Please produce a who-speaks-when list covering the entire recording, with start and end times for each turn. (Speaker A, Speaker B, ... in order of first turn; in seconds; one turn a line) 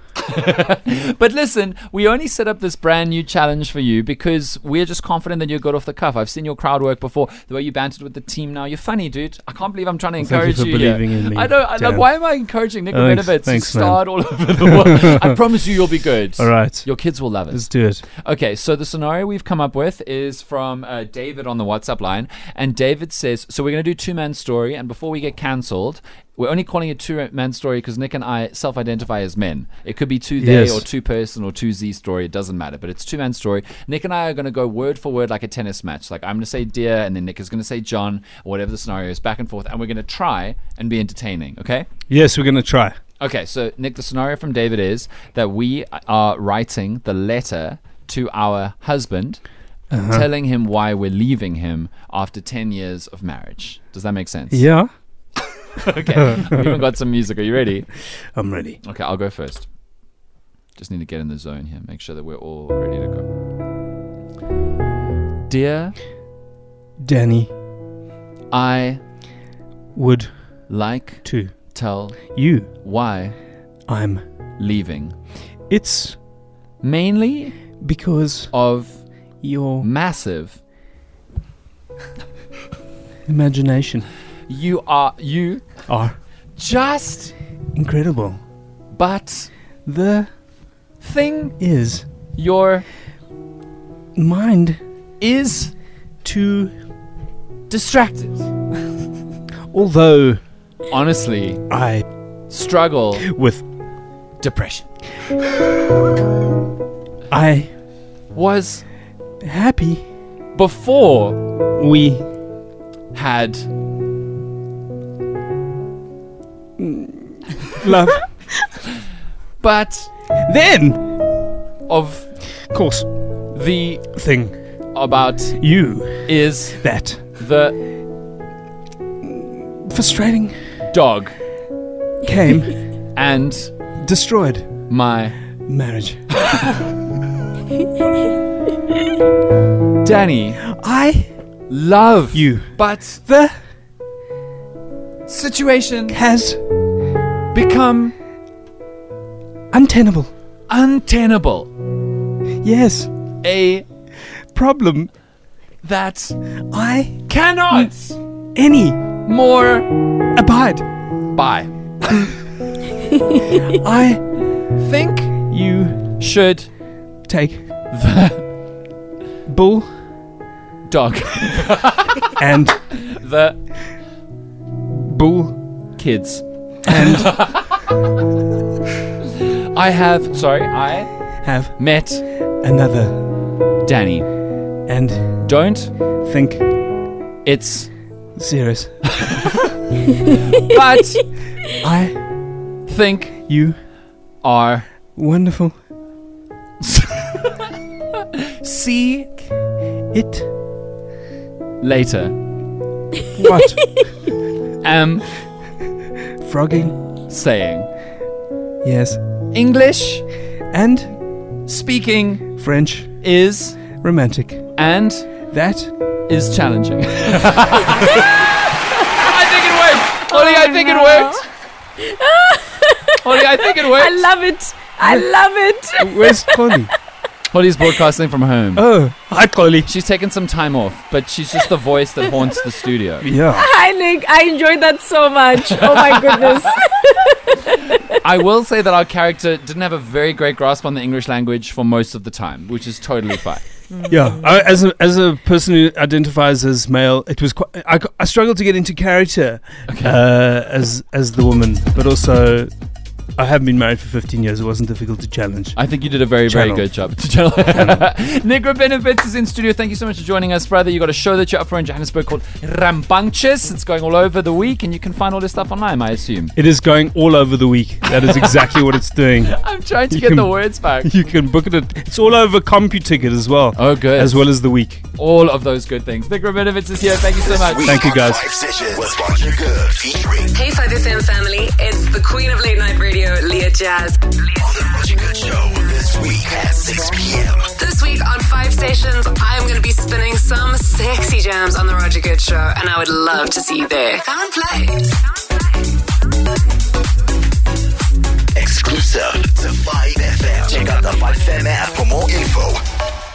Speaker A: 0.2-41.9
Speaker B: 10.2-15.1
Speaker B: 16.4-18.0
Speaker B: 30.4-30.8
Speaker B: 42.1-43.0
Speaker A: 43.2-54.7
Speaker B: 49.9-50.2
Speaker B: 54.5-54.9
Speaker A: 55.8-57.9
Speaker B: 58.3-58.8
Speaker A: 58.8-59.7
Speaker A: 60.8-63.3
Speaker A: 65.5-66.0
Speaker B: 67.0-67.5
Speaker A: 68.5-69.0
Speaker B: 69.9-72.7
Speaker A: 70.7-73.4
Speaker B: 73.9-74.2
Speaker A: 74.6-75.2
Speaker B: 75.7-76.2
Speaker A: 76.8-77.8
Speaker B: 77.8-78.6
Speaker A: 78.5-80.6
Speaker B: 79.4-79.9
Speaker B: 83.2-84.1
Speaker A: 84.5-85.9
Speaker B: 85.9-86.2
Speaker A: 86.5-87.4
Speaker B: 87.8-88.4
Speaker A: 88.9-89.5
Speaker B: 89.8-90.4
Speaker A: 91.0-92.9
Speaker B: 91.6-92.1
Speaker B: 94.1-94.8
Speaker A: 95.2-95.8
Speaker B: 96.2-96.7
Speaker A: 97.7-98.5
Speaker B: 99.7-100.4
Speaker A: 100.9-101.7
Speaker B: 101.7-102.1
Speaker A: 102.5-103.2
Speaker B: 103.2-103.7
Speaker A: 104.4-104.9
Speaker B: 107.3-107.7
Speaker A: 108.3-108.9
Speaker B: 109.4-110.1
Speaker A: 110.5-111.4
Speaker B: 111.8-112.3
Speaker A: 113.1-113.7
Speaker B: 116.8-118.6
Speaker A: 119.6-120.1
Speaker B: 120.4-121.1
Speaker A: 121.8-122.6
Speaker B: 122.6-123.1
Speaker A: 123.5-124.1
Speaker B: 124.1-124.6
Speaker A: 124.9-127.8
Speaker B: 125.6-127.2
Speaker B: 129.2-130.6
Speaker A: 130.8-131.4
Speaker B: 132.2-132.8
Speaker A: 133.1-133.7
Speaker B: 134.0-134.9
Speaker A: 134.9-135.4
Speaker B: 135.6-136.4
Speaker A: 140.0-140.7
Speaker B: 140.7-141.3
Speaker A: 141.7-143.2
Speaker B: 142.3-143.7
Speaker A: 145.2-146.2
Speaker B: 146.1-146.6
Speaker A: 147.5-148.2
Speaker B: 149.7-150.3
Speaker A: 150.7-151.7
Speaker B: 152.6-153.1
Speaker A: 153.4-153.9
Speaker B: 154.3-155.1
Speaker A: 155.8-156.6
Speaker B: 156.7-157.9
Speaker A: 157.2-158.2
Speaker B: 158.5-159.0
Speaker A: 159.2-159.9
Speaker B: 160.3-160.9
Speaker A: 161.3-162.3
Speaker B: 163.7-164.5
Speaker A: 164.8-165.5
Speaker B: 165.5-166.2
Speaker A: 166.2-166.8
Speaker B: 167.2-167.7
Speaker A: 167.9-168.5
Speaker B: 169.5-170.0
Speaker A: 170.9-172.2
Speaker B: 172.4-173.1
Speaker A: 173.1-173.7
Speaker B: 174.9-175.8
Speaker A: 176.0-177.7
Speaker B: 176.9-177.6
Speaker A: 179.7-182.2
Speaker B: 181.4-183.3
Speaker A: 183.8-184.4
Speaker B: 184.9-185.6
Speaker A: 185.4-185.9
Speaker B: 186.2-186.7
Speaker A: 187.4-188.0
Speaker B: 188.3-189.3
Speaker A: 190.6-191.3
Speaker B: 191.8-192.2
Speaker A: 192.8-193.4
Speaker B: 193.5-193.8
Speaker A: 194.4-194.9
Speaker B: 195.1-195.8
Speaker A: 196.9-197.6
Speaker A: 198.6-199.5
Speaker B: 200.1-200.5
Speaker A: 201.8-202.3
Speaker B: 203.3-204.2
Speaker A: 204.8-205.5
Speaker B: 206.4-207.0
Speaker A: 207.3-207.9
Speaker B: 208.8-209.2
Speaker A: 209.5-210.3
Speaker B: 210.7-211.2
Speaker A: 211.6-212.6
Speaker B: 212.6-213.4
Speaker A: 213.2-213.9
Speaker B: 214.0-214.8
Speaker A: 214.8-215.3
Speaker B: 215.5-215.9
Speaker A: 216.3-221.5
Speaker C: 220.6-221.4
Speaker C: 222.0-226.8
Speaker A: 223.2-224.3
Speaker B: 225.0-225.3
Speaker B: 225.9-226.9
Speaker A: 227.5-228.8
Speaker B: 228.8-229.9
Speaker A: 229.8-233.3
Speaker B: 233.2-233.7
Speaker C: 233.5-238.1
Speaker A: 235.7-236.7
Speaker A: 238.2-243.8
Speaker C: 243.9-244.3
Speaker B: 244.1-252.7
Speaker A: 249.8-250.2
Speaker B: 253.3-255.9
Speaker A: 255.8-266.5
Speaker B: 256.5-256.9
Speaker B: 266.6-275.0
Speaker A: 269.4-271.1
Speaker A: 273.8-274.5
Speaker A: 275.1-278.1
Speaker D: 277.4-280.5
Speaker B: 277.8-278.5
Speaker E: 280.5-284.7
Speaker D: 284.6-287.7
Speaker E: 287.8-295.9
Speaker D: 298.6-302.8